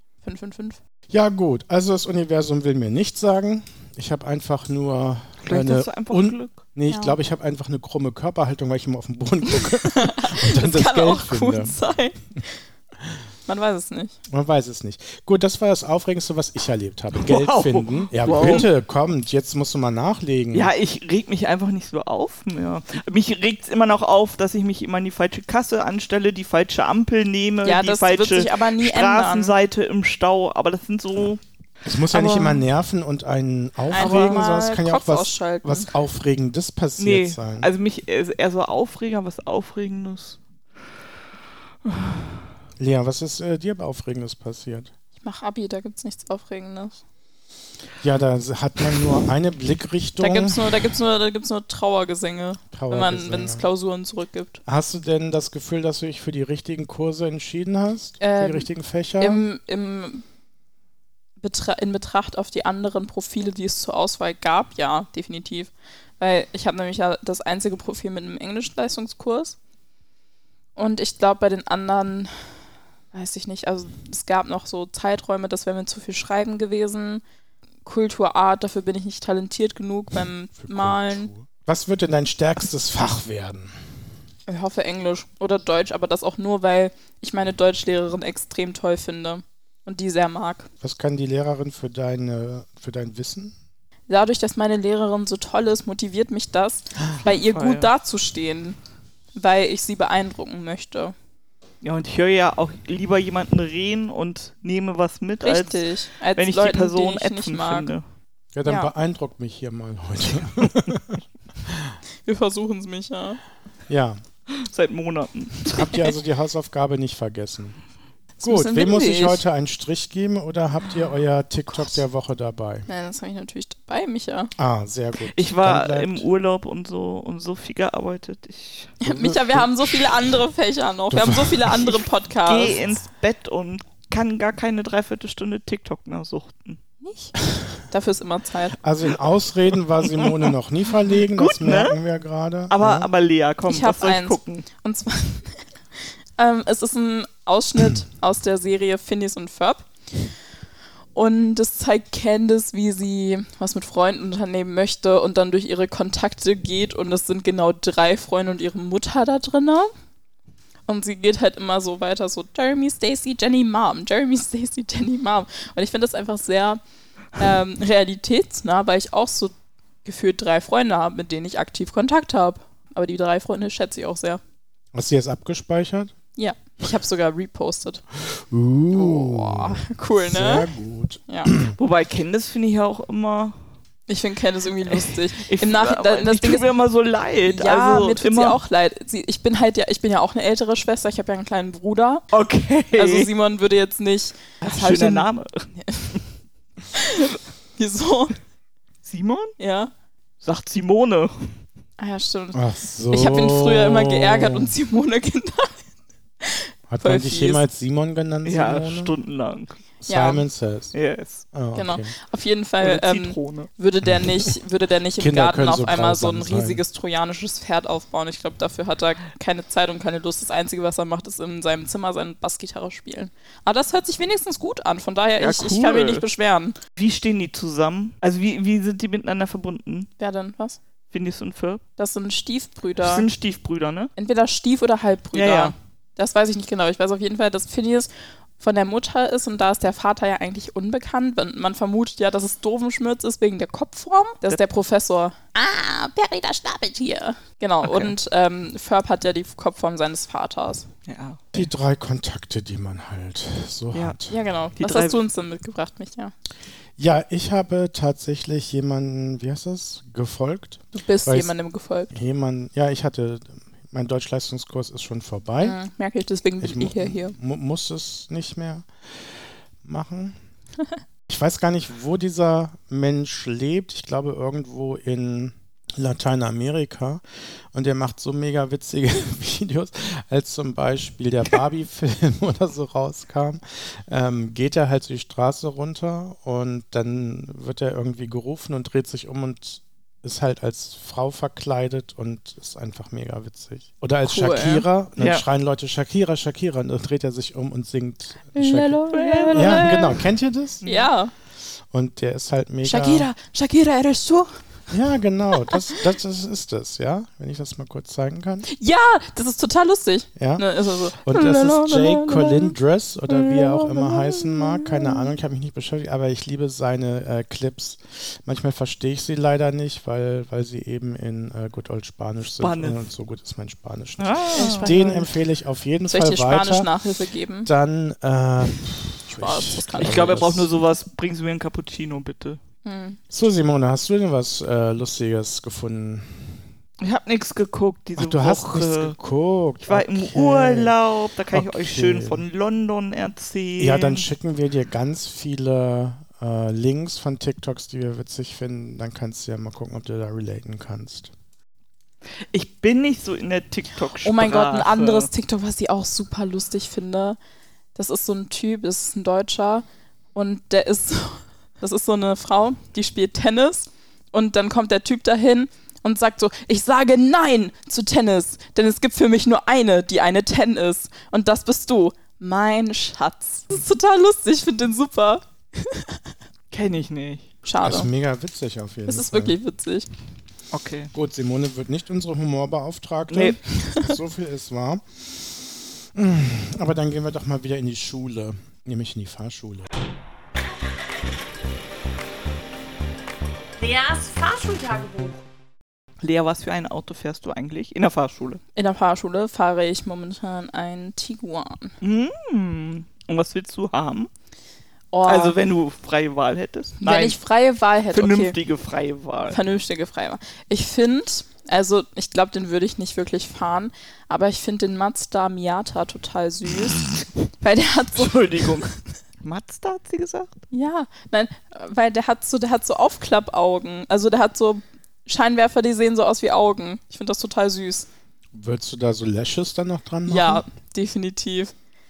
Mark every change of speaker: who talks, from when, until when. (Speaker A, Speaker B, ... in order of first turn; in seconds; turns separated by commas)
Speaker A: 0.2-0.8, Speaker B: 1.1-11.8, Speaker C: 5.4-6.6, Speaker A: 6.9-7.2, Speaker A: 9.5-12.5, Speaker A: 13.5-14.2, Speaker B: 14.3-20.7, Speaker C: 17.1-18.7, Speaker A: 18.3-18.7, Speaker C: 20.5-31.4, Speaker A: 27.6-29.6, Speaker B: 31.8-37.7, Speaker A: 32.1-32.5, Speaker A: 33.9-35.9, Speaker C: 33.9-34.4, Speaker C: 37.0-40.4, Speaker C: 41.9-42.4, Speaker B: 42.8-44.9, Speaker A: 45.2-47.0, Speaker B: 48.0-50.9, Speaker A: 50.2-54.6, Speaker B: 52.7-53.6, Speaker B: 54.7-59.4, Speaker A: 58.2-58.7, Speaker A: 59.2-60.2, Speaker A: 61.4-69.6, Speaker A: 70.8-72.5, Speaker A: 73.1-77.2, Speaker A: 77.8-81.3, Speaker B: 80.6-83.8, Speaker A: 84.5-90.7, Speaker B: 90.8-93.5, Speaker A: 94.1-98.8, Speaker C: 97.2-97.9, Speaker A: 99.3-101.2, Speaker C: 101.8-108.0, Speaker A: 105.4-107.9, Speaker B: 108.5-112.0, Speaker A: 108.7-108.9, Speaker A: 112.2-113.4, Speaker B: 113.9-114.2, Speaker C: 114.5-116.0, Speaker B: 115.7-117.8, Speaker A: 118.4-119.4, Speaker B: 118.4-122.9, Speaker A: 122.9-124.5, Speaker B: 124.6-126.3, Speaker C: 125.3-128.9, Speaker A: 129.0-132.8, Speaker B: 129.1-130.2, Speaker B: 131.1-132.0, Speaker C: 132.4-136.8, Speaker A: 137.0-137.3, Speaker A: 137.9-138.8, Speaker B: 138.8-143.1, Speaker C: 140.0-140.5, Speaker C: 141.3-142.0, Speaker C: 142.7-144.7, Speaker A: 143.7-145.6, Speaker A: 146.4-149.9, Speaker A: 151.2-159.9, Speaker A: 160.9-166.8, Speaker A: 167.4-174.4, Speaker B: 174.9-176.1, Speaker A: 176.4-178.0, Speaker B: 178.2-181.8, Speaker A: 178.9-180.7, Speaker A: 181.3-181.5, Speaker C: 181.8-183.6, Speaker A: 184.1-186.7, Speaker C: 184.9-188.6, Speaker A: 187.5-192.3, Speaker C: 192.3-193.3, Speaker A: 192.9-195.3, Speaker C: 194.6-195.7, Speaker A: 195.8-196.2, Speaker A: 196.9-198.4, Speaker C: 199.1-199.5, Speaker A: 199.6-199.9, Speaker C: 200.4-201.6, Speaker A: 202.0-205.8, Speaker B: 202.5-204.7, Speaker A: 206.4-207.6, Speaker B: 206.9-209.1, Speaker C: 208.4-209.8, Speaker B: 210.0-210.9, Speaker A: 210.1-210.4, Speaker C: 210.9-211.4, Speaker B: 211.5-212.1, Speaker A: 211.8-226.8, Speaker C: 212.8-213.7, Speaker B: 215.2-216.8, Speaker C: 225.4-226.2, Speaker C: 227.0-230.1, Speaker A: 230.2-230.8, Speaker C: 231.1-231.8, Speaker A: 232.0-233.3, Speaker C: 233.0-234.1, Speaker A: 234.2-250.9, Speaker C: 235.3-235.8, Speaker C: 247.8-248.1, Speaker C: 251.1-251.7, Speaker B: 251.5-254.4, Speaker A: 254.3-256.3, Speaker C: 254.8-255.2, Speaker B: 257.0-261.5, Speaker A: 260.9-262.1, Speaker B: 262.1-265.8, Speaker A: 265.6-267.4, Speaker B: 266.6-270.4, Speaker B: 271.3-300.9, Speaker A: 294.2-294.9, Speaker C: 295.2-295.4, Speaker A: 298.6-300.2, Speaker C: 299.1-300.1, Speaker A: 300.9-301.3, Speaker B: 301.7-303.3, Speaker A: 302.8-304.6, Speaker B: 304.9-308.7, Speaker A: 305.6-306.0, Speaker A: 308.7-312.8, Speaker B: 310.4-326.9, Speaker A: 313.3-315.3, Speaker C: 322.6-323.1, Speaker C: 324.2-324.9, Speaker A: 324.6-325.3, Speaker A: 326.1-327.7, Speaker B: 327.6-330.7, Speaker A: 329.3-330.4, Speaker C: 330.0-332.6, Speaker A: 332.8-333.2, Speaker B: 333.3-336.6, Speaker C: 337.0-339.2, Speaker B: 338.2-340.9, Speaker C: 339.8-344.3, Speaker B: 341.5-342.4, Speaker B: 343.8-351.3, Speaker C: 352.5-355.3, Speaker A: 354.2-357.4, Speaker A: 357.9-376.2, Speaker C: 376.7-377.5, Speaker A: 377.6-378.1, Speaker B: 377.8-379.6, Speaker A: 379.1-380.1, Speaker C: 380.7-381.1, Speaker B: 381.1-389.9, Speaker C: 383.3-383.6, Speaker A: 383.7-384.2, Speaker C: 393.8-395.3, Speaker C: 396.2-398.6, Speaker A: 398.8-402.0, Speaker C: 402.0-404.3, Speaker A: 405.1-405.6, Speaker C: 405.3-407.4, Speaker A: 407.0-408.6, Speaker C: 408.1-409.6, Speaker A: 409.5-418.9, Speaker C: 418.1-420.6, Speaker A: 420.7-428.1, Speaker B: 428.5-430.6, Speaker A: 430.3-431.7